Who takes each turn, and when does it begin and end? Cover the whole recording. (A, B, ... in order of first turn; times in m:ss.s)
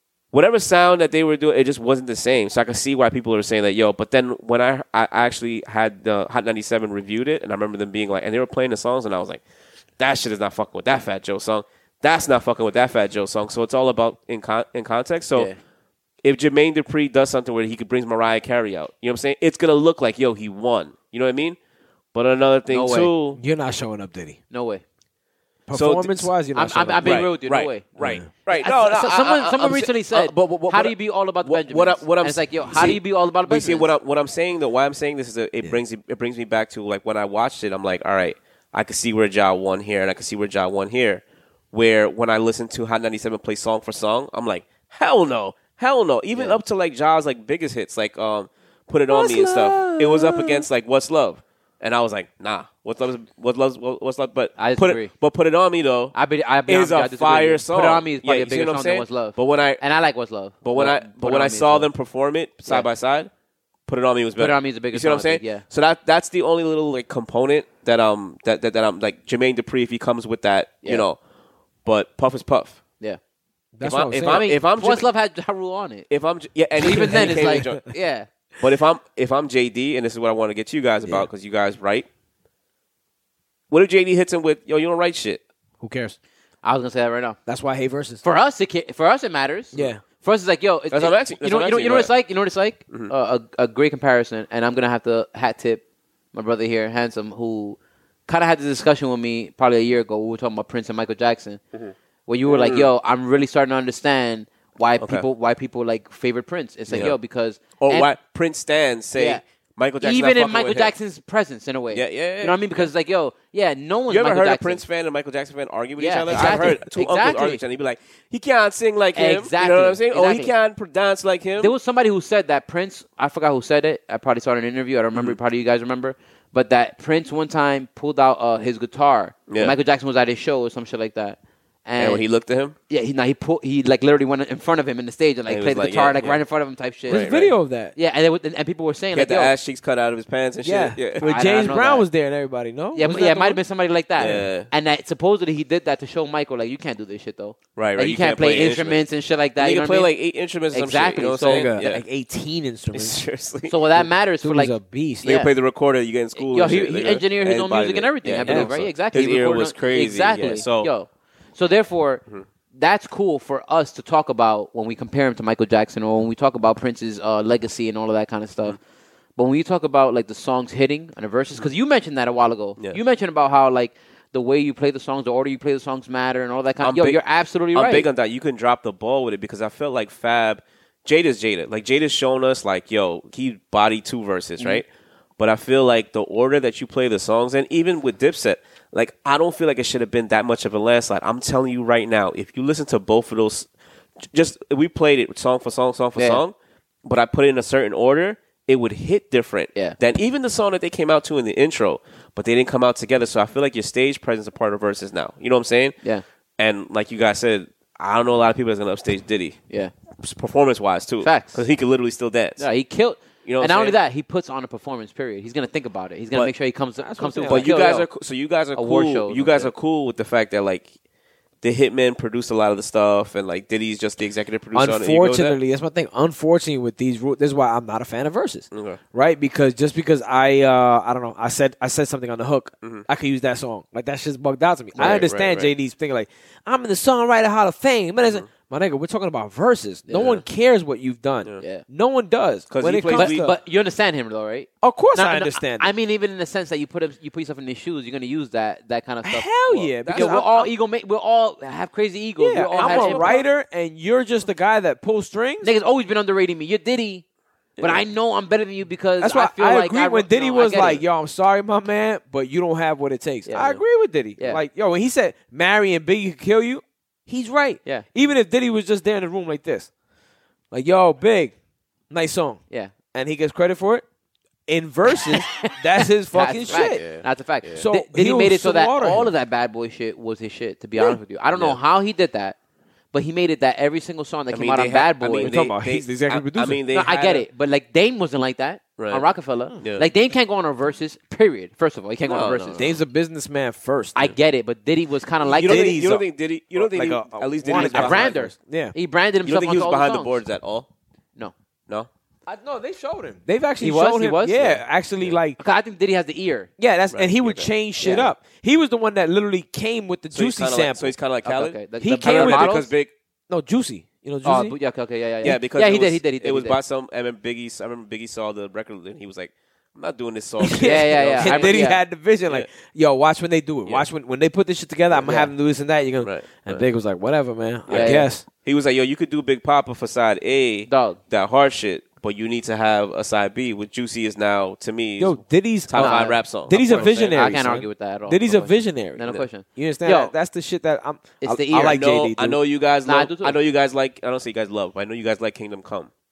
0:00.3-0:09.4 A
0:10.0-0:15.5 A
0:16.2-0:21.6 A
0:22.1-0:23.4 A
0:22.7-0:23.1 B
0:23.4-0:24.4 C
0:24.5-0:24.8 B
0:25.7-0:27.2 C
0:25.7-0:26.3 A
0:26.5-0:33.9 B
0:27.0-0:56.2 A
0:28.0-0:28.3 C
0:49.1-0:50.6 C
0:54.6-0:55.1 B
0:56.1-1:01.9 B
0:56.7-0:59.8 A
1:00.6-1:03.3 A
1:03.9-1:11.2 A
1:04.4-1:05.6 B
1:11.8-1:12.8 A
1:13.8-1:14.4 C
1:13.8-1:15.1 A
1:14.2-1:16.1 B
1:16.1-1:17.8 A
1:16.8-1:18.3 B
1:17.1-1:17.8 C
1:18.6-1:22.1 A
1:23.7-1:25.4 A
1:25.8-1:26.2 C
1:26.6-1:27.4 B
1:27.5-1:28.2 C
1:28.2-1:35.8 B
1:29.8-1:30.0 C
1:30.9-1:32.1 A
1:36.3-1:41.6 B
1:42.3-1:48.1 B
1:42.5-1:42.9 A
1:45.0-1:45.3 A
1:46.9-1:47.2 A
1:47.8-1:50.9 A
1:49.2-1:49.4 B
1:50.0-1:54.8 B
1:51.9-1:52.9 A
1:54.1-2:01.7 A
1:56.0-1:57.6 B
1:59.2-2:00.5 B
2:01.6-2:12.2 B
2:09.5-2:09.8 A
2:12.0-2:12.8 A
2:12.9-2:17.3 B
2:15.5-2:16.4 A
2:17.1-2:17.5 A
2:17.1-2:17.9 C
2:18.0-2:19.5 B
2:19.1-2:21.3 A
2:20.6-2:23.6 C
2:21.2-2:22.1 B
2:23.0-2:30.1 B
2:24.2-2:24.7 A
2:24.2-2:24.5 C
2:27.8-2:29.0 A
2:29.6-2:32.0 A
2:30.7-2:31.7 B
2:31.4-2:33.2 C
2:32.9-2:33.8 A
2:33.7-2:35.5 B
2:34.4-2:35.3 C
2:35.2-2:40.9 A
2:36.4-2:42.2 B
2:38.4-2:38.7 C
2:42.8-2:48.8 B
2:49.4-2:58.1 B
2:56.8-2:57.2 A
2:57.7-3:04.9 A
3:05.4-3:26.0 A
3:16.2-3:16.4 B
3:26.6-3:29.6 A
3:30.2-3:32.6 A
3:31.2-3:31.6 B
3:32.6-3:38.1 B
3:33.4-3:34.0 A
3:37.0-3:37.7 C
3:37.5-3:40.9 A
3:38.8-3:39.7 B
3:41.6-3:45.6 A
3:44.7-4:03.5 C
3:48.7-3:49.0 A
3:55.0-3:55.2 B
3:55.0-3:55.7 A
4:00.1-4:00.4 B
4:02.7-4:03.5 A
4:03.1-4:13.4 B
4:04.8-4:05.9 C
4:09.2-4:10.5 C
4:09.7-4:10.7 A
4:12.4-4:15.7 C
4:12.7-4:13.4 A
4:15.6-4:17.2 B
4:17.8-4:18.0 C
4:17.8-4:21.0 B
4:19.2-4:29.9 C
4:23.5-4:23.8 B
4:30.7-4:31.5 C
4:32.1-4:32.6 C
4:33.1-4:34.0 C
4:34.7-4:37.0 C
4:35.3-4:42.6 B
4:36.7-4:37.8 A
4:37.8-4:39.3 C
4:41.5-4:41.8 A
4:43.1-4:45.6 B
4:44.5-4:47.5 A
4:45.4-4:46.8 C
4:46.9-4:53.0 B
4:49.0-4:49.2 A
4:49.8-4:50.1 A
4:52.2-4:52.9 A
4:52.8-4:54.2 C
4:54.2-4:56.0 B
4:55.4-4:59.0 C
4:55.5-4:58.4 A
4:57.7-5:00.4 B
4:59.4-5:00.9 A
5:02.5-5:05.6 C
5:03.8-5:04.8 B
5:05.6-5:06.7 B
5:06.8-5:11.1 C
5:07.1-5:07.7 A
5:08.0-5:08.3 B
5:10.3-5:13.1 A
5:11.4-5:12.9 B
5:12.0-5:12.8 C
5:13.5-5:14.8 C
5:14.4-5:16.8 B
5:15.4-5:21.8 A
5:20.6-5:28.4 C
5:20.8-5:22.0 B
5:25.2-5:25.5 B
5:26.2-5:26.8 A
5:27.9-5:37.5 A
5:27.9-5:28.3 B
5:30.9-5:31.2 B
5:35.2-5:42.6 C
5:36.0-5:40.3 B
5:41.4-5:42.0 B
5:41.8-5:46.1 A
5:43.0-5:43.6 B